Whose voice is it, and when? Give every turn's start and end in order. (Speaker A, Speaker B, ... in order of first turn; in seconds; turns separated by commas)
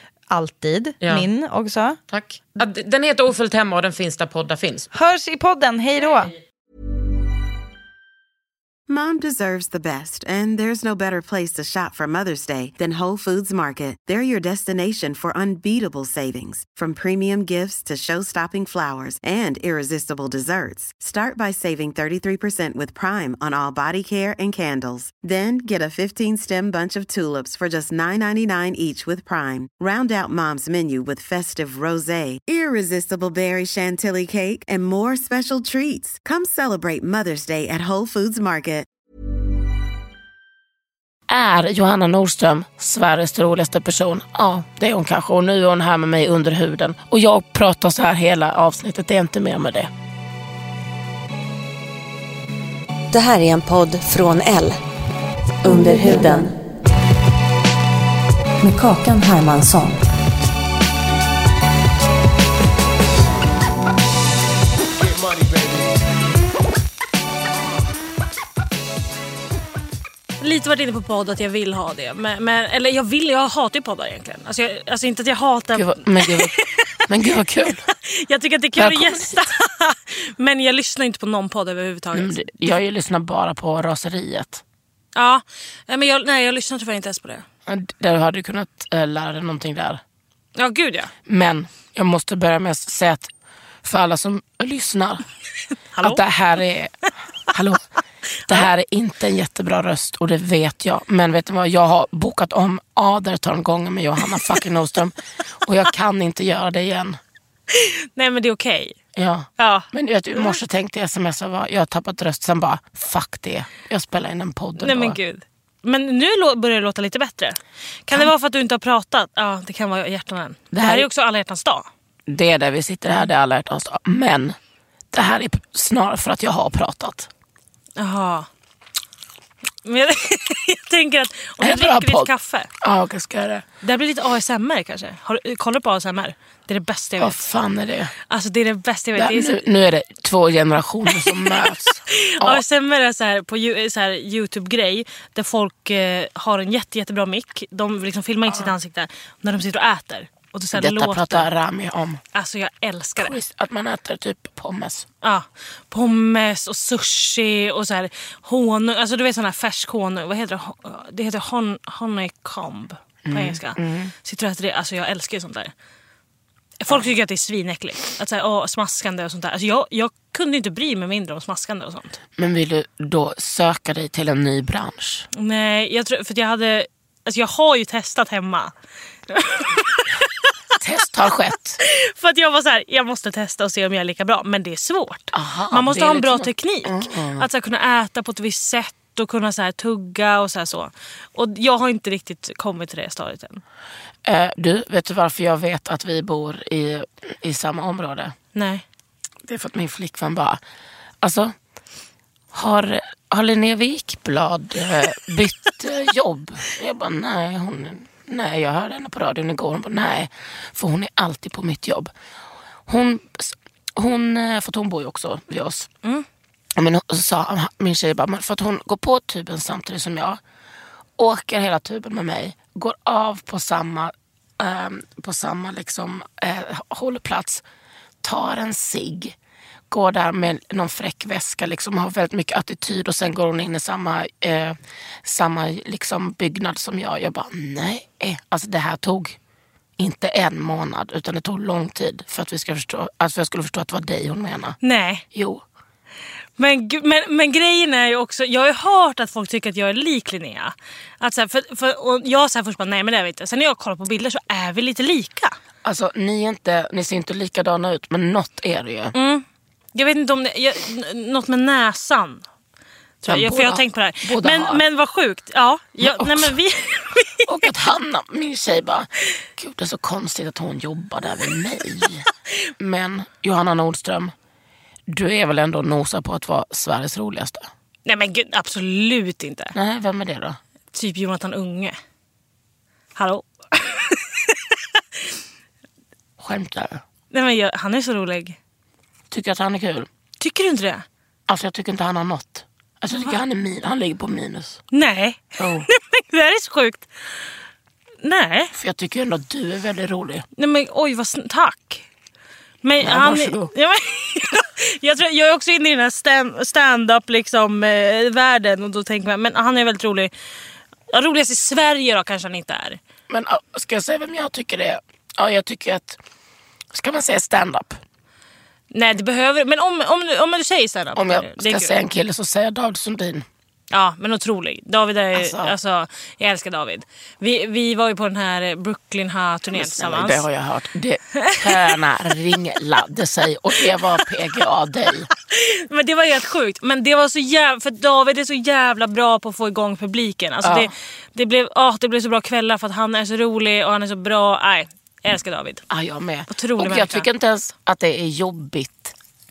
Speaker A: 0.3-2.0, Speaker B: 1.0-1.3, Speaker B: 2.1-4.9, Speaker A: 4.9-6.3, Speaker C: 8.9-38.9, Speaker D: 41.3-49.9, Speaker E: 53.1-54.8, Speaker E: 55.6-56.5, Speaker E: 58.6-60.0, Speaker F: 70.4-77.1, Speaker D: 75.7-76.5, Speaker D: 77.1-77.9, Speaker F: 77.9-82.5, Speaker D: 78.8-79.4, Speaker D: 82.1-84.6, Speaker F: 85.2-87.5, Speaker D: 87.7-90.0, Speaker F: 90.6-91.1, Speaker D: 91.3-93.3, Speaker D: 93.8-95.2, Speaker F: 96.0-96.2, Speaker D: 96.0-96.9, Speaker D: 97.5-97.8, Speaker D: 98.5-107.2, Speaker F: 107.7-109.0, Speaker D: 109.2-115.2, Speaker F: 109.6-110.6, Speaker F: 114.8-121.9, Speaker D: 120.7-121.1, Speaker D: 122.3-124.6, Speaker D: 125.1-127.3, Speaker F: 128.0-128.5, Speaker F: 129.8-132.7, Speaker D: 131.6-132.3, Speaker D: 132.8-133.7, Speaker F: 133.8-137.4, Speaker D: 137.2-138.1, Speaker F: 138.3-139.7, Speaker D: 139.2-142.6, Speaker F: 141.1-151.5, Speaker D: 148.5-148.7, Speaker D: 150.7-152.2, Speaker F: 152.3-153.3, Speaker D: 153.2-155.1, Speaker F: 155.2-165.7, Speaker D: 163.2-164.1, Speaker F: 166.8-172.2, Speaker D: 172.4-175.3, Speaker F: 175.3-178.7, Speaker F: 179.3-180.3, Speaker D: 180.8-181.8, Speaker F: 181.8-193.6, Speaker D: 185.3-187.5, Speaker D: 194.2-198.3, Speaker F: 198.6-198.8, Speaker D: 199.4-200.6, Speaker D: 201.2-201.5, Speaker D: 202.5-212.1, Speaker D: 212.9-215.9, Speaker D: 216.8-220.4, Speaker D: 221.2-227.6, Speaker D: 228.2-229.4, Speaker D: 229.9-239.4, Speaker D: 240.0-244.8, Speaker F: 244.8-245.2, Speaker D: 245.3-245.6, Speaker F: 246.6-255.5, Speaker D: 255.8-259.2, Speaker F: 259.2-262.4, Speaker F: 263.2-267.5, Speaker D: 263.3-264.8, Speaker D: 266.0-266.6, Speaker D: 267.4-272.3, Speaker D: 272.8-274.3, Speaker D: 275.1-277.7, Speaker F: 278.1-279.8, Speaker D: 279.8-280.6, Speaker F: 280.9-282.0, Speaker F: 283.1-284.8, Speaker D: 286.4-287.0, Speaker F: 287.3-288.6, Speaker D: 289.3-290.1, Speaker F: 290.4-291.1, Speaker D: 291.5-294.8, Speaker F: 294.9-297.1, Speaker D: 295.6-295.9, Speaker F: 298.2-298.7, Speaker D: 298.8-300.5, Speaker F: 300.6-302.1, Speaker F: 302.8-310.3, Speaker D: 303.0-303.7, Speaker F: 311.1-313.0, Speaker D: 313.3-316.2, Speaker D: 316.9-318.0, Speaker F: 318.9-322.0, Speaker D: 321.1-323.5, Speaker F: 323.9-330.4, Speaker D: 325.3-325.8, Speaker D: 329.7-335.3, Speaker F: 331.4-332.0, Speaker F: 335.4-345.8, Speaker D: 340.6-340.9, Speaker D: 345.9-349.1, Speaker F: 346.5-347.3